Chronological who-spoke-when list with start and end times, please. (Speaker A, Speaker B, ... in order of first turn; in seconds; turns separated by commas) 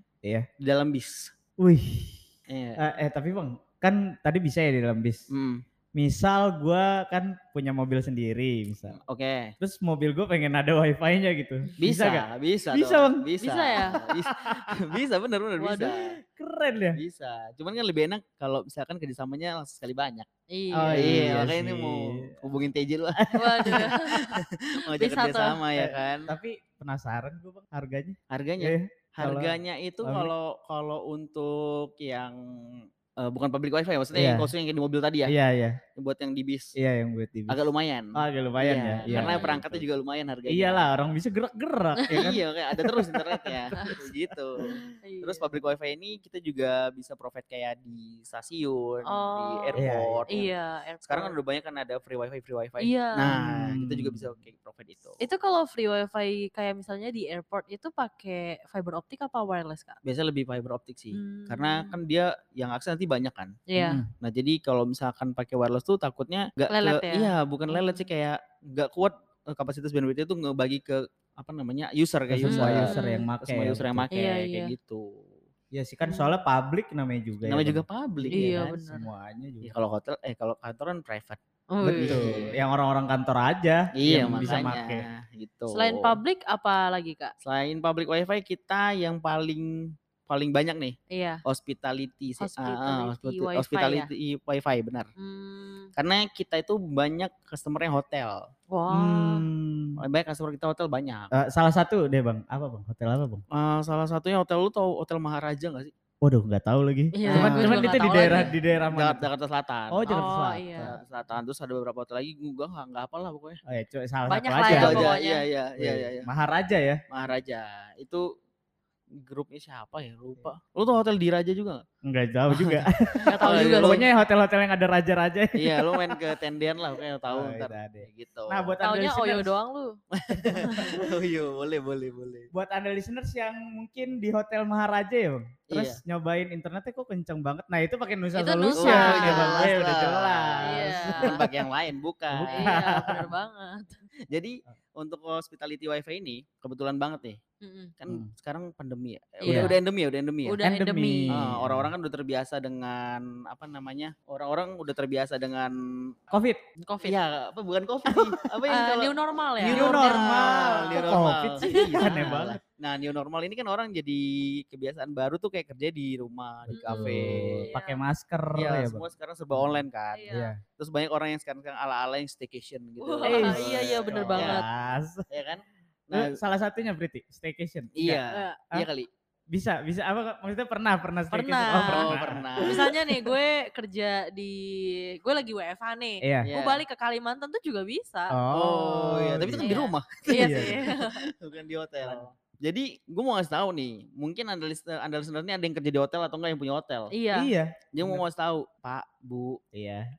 Speaker A: 0.6-1.3, Speaker B: 1.6-2.2, Speaker A: 2.5-2.8, Speaker B: 2.8-5.3, Speaker A: 5.3-5.6, Speaker B: 5.9-9.0, Speaker A: 8.9-9.5, Speaker B: 9.6-13.3, Speaker A: 11.8-16.1, Speaker C: 13.4-14.0, Speaker B: 13.8-15.0, Speaker C: 15.6-15.9, Speaker B: 15.8-17.0, Speaker A: 16.9-20.3, Speaker C: 20.5-21.2, Speaker B: 20.7-22.5, Speaker A: 20.9-26.3, Speaker B: 23.1-23.9, Speaker C: 23.3-25.6, Speaker B: 25.8-30.3, Speaker A: 28.3-35.3, Speaker B: 34.1-34.5, Speaker B: 35.3-35.8, Speaker A: 35.9-36.7, Speaker B: 36.8-39.9, Speaker A: 37.5-40.9, Speaker C: 39.1-39.6, Speaker B: 40.5-44.9, Speaker C: 42.0-42.2, Speaker A: 42.1-55.2, Speaker C: 44.9-45.5, Speaker C: 49.0-51.3, Speaker B: 49.7-50.2, Speaker C: 52.8-53.3, Speaker B: 53.2-54.3, Speaker C: 55.2-60.0, Speaker A: 60.0-63.6, Speaker C: 61.1-62.0, Speaker C: 63.7-64.0, Speaker B: 63.8-64.1, Speaker A: 64.2-75.3, Speaker C: 66.7-68.1, Speaker B: 72.3-74.2, Speaker C: 72.5-73.3, Speaker C: 74.1-74.7, Speaker B: 75.7-79.7, Speaker C: 76.0-76.3, Speaker A: 77.4-78.7, Speaker C: 78.3-79.1, Speaker A: 79.6-81.4, Speaker C: 81.7-82.4, Speaker B: 81.8-85.0, Speaker A: 82.0-82.5, Speaker A: 84.0-86.2, Speaker C: 84.2-84.6, Speaker C: 85.7-87.3, Speaker A: 87.4-95.1, Speaker C: 91.1-91.4, Speaker C: 92.4-94.1, Speaker C: 95.2-95.9, Speaker A: 96.0-98.5, Speaker C: 98.7-99.5, Speaker B: 98.9-100.0, Speaker A: 100.0-101.3, Speaker B: 101.3-103.4, Speaker A: 103.5-105.9, Speaker B: 106.2-109.3, Speaker C: 107.1-108.5, Speaker A: 107.2-110.2, Speaker B: 109.9-111.0, Speaker C: 110.1-110.9, Speaker A: 110.8-113.6, Speaker B: 113.6-115.1, Speaker C: 114.3-115.4, Speaker A: 114.7-116.3, Speaker B: 115.8-117.0, Speaker A: 117.1-118.3, Speaker A: 119.2-121.8, Speaker B: 122.0-126.3, Speaker A: 122.5-124.0, Speaker C: 123.3-124.1, Speaker A: 125.5-128.8, Speaker B: 127.3-129.5, Speaker C: 128.8-130.0, Speaker A: 130.1-132.5, Speaker B: 130.3-131.1, Speaker B: 132.5-141.5, Speaker A: 135.7-136.0, Speaker C: 138.3-139.7, Speaker A: 138.8-143.3, Speaker C: 140.6-141.5, Speaker B: 142.3-143.3, Speaker C: 142.5-144.0, Speaker A: 144.3-147.4, Speaker C: 147.6-147.9, Speaker A: 148.0-150.6, Speaker C: 149.4-149.8, Speaker B: 149.4-149.7, Speaker C: 150.4-151.4, Speaker B: 150.6-151.9, Speaker A: 151.3-156.1, Speaker B: 156.3-156.6, Speaker C: 156.8-157.2, Speaker A: 157.0-167.7, Speaker B: 158.1-158.4, Speaker C: 158.7-162.3, Speaker B: 159.6-162.6, Speaker B: 166.7-170.6, Speaker C: 166.7-168.0, Speaker A: 168.5-174.6, Speaker C: 170.1-170.5, Speaker C: 173.0-174.7, Speaker B: 173.2-175.3, Speaker A: 175.3-176.4, Speaker B: 176.1-178.8, Speaker A: 177.9-179.1, Speaker C: 178.3-178.6, Speaker B: 179.5-183.3, Speaker C: 181.3-188.4, Speaker A: 181.9-182.9, Speaker B: 186.2-186.5, Speaker A: 186.4-186.8, Speaker B: 188.3-189.7, Speaker A: 188.5-197.1, Speaker C: 189.5-191.2, Speaker B: 190.3-190.8, Speaker C: 197.1-197.5, Speaker B: 197.3-198.2, Speaker A: 197.9-199.6, Speaker B: 199.7-200.1